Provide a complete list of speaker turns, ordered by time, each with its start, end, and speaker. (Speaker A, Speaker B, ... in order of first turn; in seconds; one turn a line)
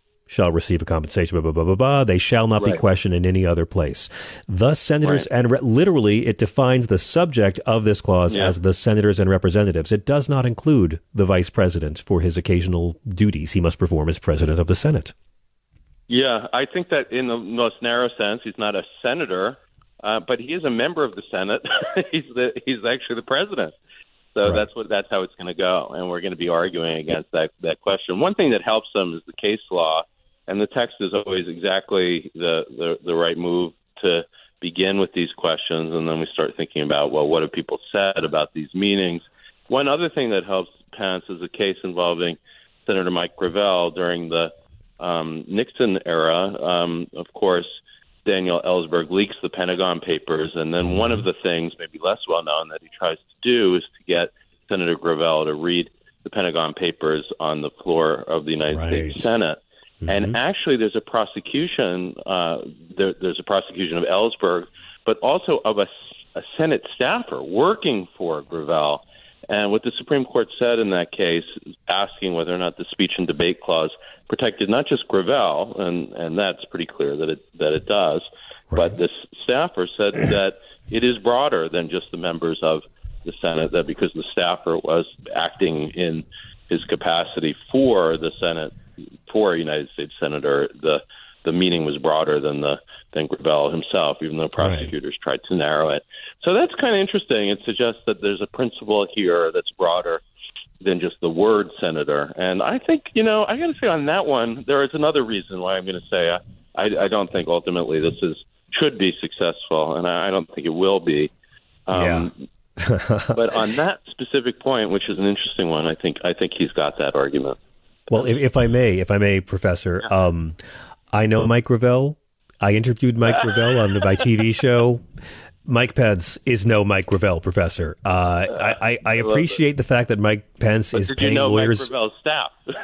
Speaker A: 0.3-15.1
Speaker B: 2.6-2.8
Speaker B: 8.3-8.5
Speaker B: 16.1-23.8
Speaker B: 24.3-100.2
Speaker A: 24.4-24.7
Speaker A: 50.8-51.2
Speaker A: 58.7-59.2
Speaker A: 60.0-60.4
Speaker A: 78.7-79.0
Speaker A: 94.6-94.9
Speaker B: 100.8-111.3
Speaker B: 111.9-112.3
Speaker A: 111.9-113.6
Speaker B: 113.3-117.6
Speaker A: 118.1-120.6
Speaker A: 121.1-125.0
Speaker A: 125.7-131.9
Speaker B: 128.5-129.6
Speaker B: 130.9-132.6